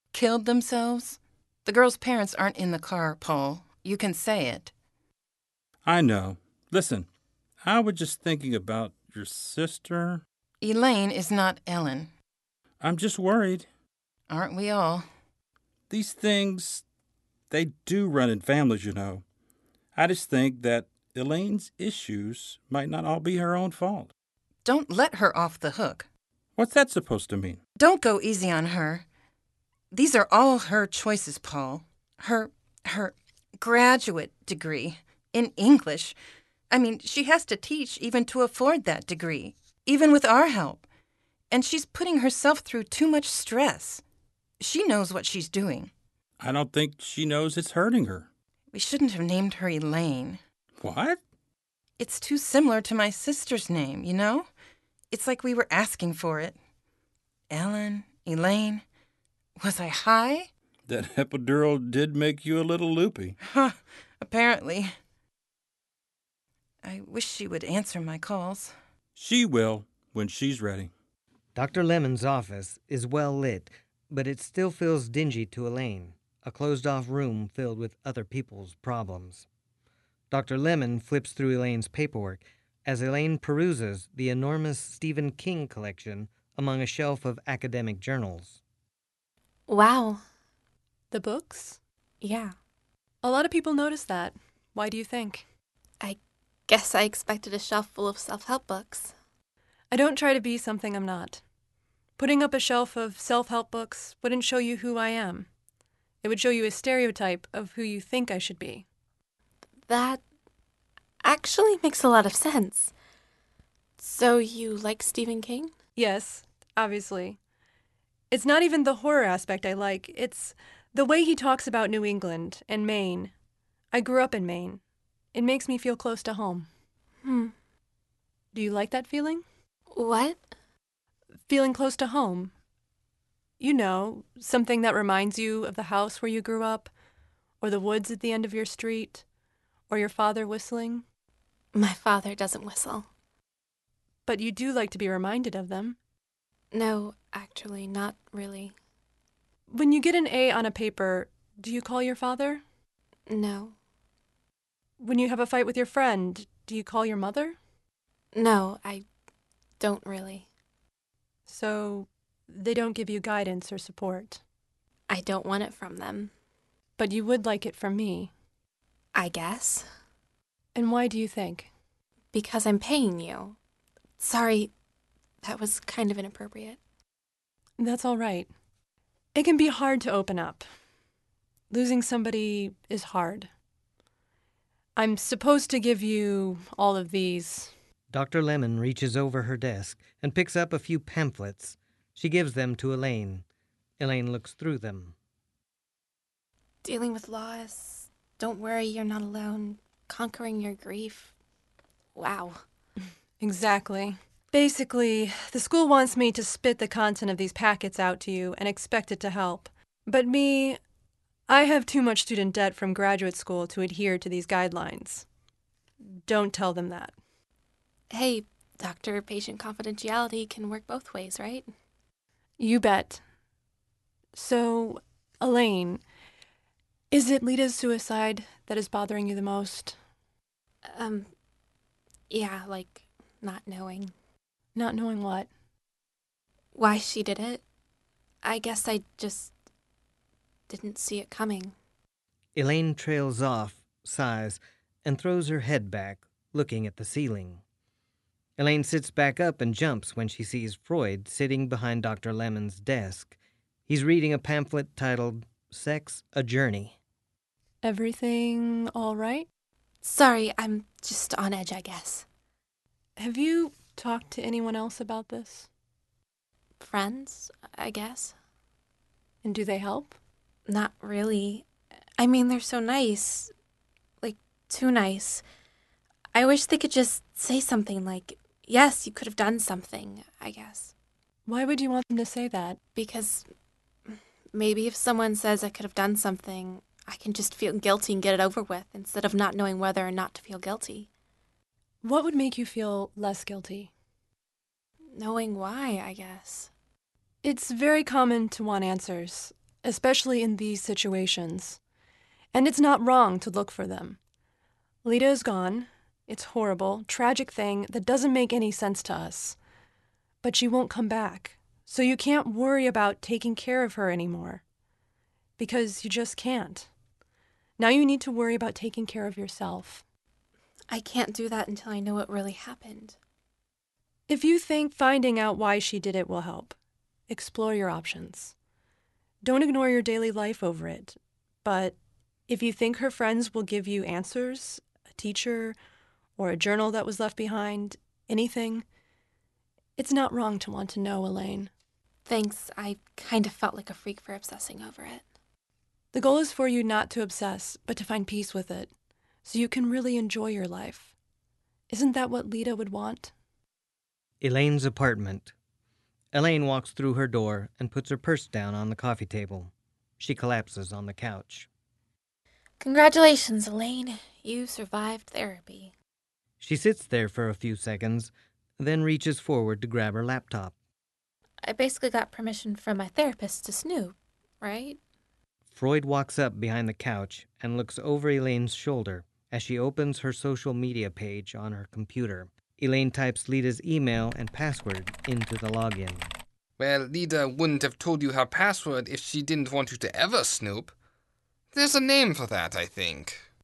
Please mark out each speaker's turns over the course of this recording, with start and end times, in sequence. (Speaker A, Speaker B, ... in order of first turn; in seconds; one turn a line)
Speaker A: 0.1-4.7
Speaker B: 5.8-7.1
Speaker B: 7.6-10.2
Speaker A: 10.6-12.1
Speaker B: 12.8-13.7
Speaker A: 14.3-15.1
Speaker B: 15.9-16.9
Speaker B: 17.5-19.2
Speaker B: 20.0-24.1
Speaker A: 24.6-26.1
Speaker B: 26.6-27.6
Speaker A: 27.8-29.1
Speaker A: 29.9-36.2
Speaker A: 36.7-40.8
Speaker A: 41.5-44.0
Speaker A: 44.6-45.9
Speaker B: 46.4-48.3
Speaker A: 48.7-50.4
Speaker B: 50.8-51.2
Speaker A: 52.0-54.5
Speaker A: 55.1-56.6
Speaker A: 57.5-58.8
Speaker A: 59.6-60.5
Speaker B: 60.9-63.4
Speaker A: 63.4-64.9
Speaker A: 66.8-68.7
Speaker B: 69.2-70.9
Speaker C: 71.5-79.5
Speaker C: 80.3-88.6
Speaker D: 89.7-90.2
Speaker E: 91.1-91.8
Speaker D: 92.2-92.5
Speaker E: 93.2-95.5
Speaker D: 96.0-99.1
Speaker E: 99.9-101.4
Speaker E: 102.2-105.5
Speaker E: 106.2-108.9
Speaker D: 109.9-110.2
Speaker D: 111.2-112.9
Speaker D: 114.0-115.7
Speaker E: 116.0-117.4
Speaker E: 118.3-123.3
Speaker E: 123.9-124.8
Speaker E: 125.3-126.7
Speaker D: 127.2-127.5
Speaker E: 128.5-129.4
Speaker D: 129.9-130.4
Speaker E: 131.5-132.5
Speaker E: 133.6-136.9
Speaker E: 137.6-139.2
Speaker E: 139.9-141.0
Speaker D: 141.7-143.1
Speaker E: 144.3-146.0
Speaker D: 146.7-148.8
Speaker E: 149.7-152.6
Speaker D: 153.3-153.8
Speaker E: 155.0-157.6
Speaker D: 158.3-159.1
Speaker D: 159.8-160.5
Speaker E: 161.5-164.4
Speaker D: 165.1-166.3
Speaker E: 167.0-168.3
Speaker D: 169.1-169.9
Speaker E: 170.8-171.7
Speaker D: 172.3-173.6
Speaker D: 174.2-174.7
Speaker D: 175.4-176.8
Speaker E: 177.8-178.5
Speaker E: 179.3-180.7
Speaker E: 181.7-183.5
Speaker E: 185.0-187.7
Speaker C: 188.1-193.4
Speaker C: 194.0-195.2
Speaker D: 196.8-201.3
Speaker D: 202.2-202.6
Speaker E: 203.4-210.8
Speaker E: 211.5-215.2
Speaker E: 216.2-217.2
Speaker D: 218.1-221.7
Speaker E: 222.6-223.2
Speaker E: 224.3-226.0
Speaker E: 227.1-230.0
Speaker D: 230.9-231.3
Speaker D: 232.3-234.1
Speaker E: 234.8-235.5
Speaker D: 236.8-237.6
Speaker D: 238.4-239.5
Speaker D: 240.7-241.8
Speaker C: 242.6-247.6
Speaker C: 248.6-253.4
Speaker C: 253.9-256.9
Speaker E: 257.8-259.5
Speaker D: 260.0-262.2
Speaker E: 263.2-265.7
Speaker D: 266.8-268.4
Speaker E: 269.4-270.2
Speaker D: 270.7-271.7
Speaker D: 272.2-273.5
Speaker D: 274.2-275.4
Speaker D: 276.3-280.9
Speaker E: 281.5-282.8
Speaker D: 282.9-283.5
Speaker D: 284.1-291.1
Speaker E: 292.0-293.9
Speaker D: 295.1-296.7
Speaker E: 297.4-301.8
Speaker E: 302.5-304.2
Speaker E: 305.0-309.6
Speaker E: 310.4-314.6
Speaker E: 315.6-316.9
Speaker E: 317.8-320.0
Speaker D: 320.9-323.2
Speaker E: 324.3-326.8
Speaker E: 327.3-328.5
Speaker E: 329.4-332.0
Speaker E: 332.5-335.8
Speaker E: 336.4-338.9
Speaker E: 340.0-341.7
Speaker D: 342.3-345.2
Speaker E: 346.1-348.9
Speaker E: 349.4-351.1
Speaker E: 351.9-353.3
Speaker C: 354.4-355.5
Speaker C: 356.3-361.7
Speaker D: 362.8-365.9
Speaker C: 366.6-370.8
Speaker D: 371.6-375.0
Speaker C: 375.7-386.3
Speaker F: 386.8-390.9
Speaker F: 391.7-393.4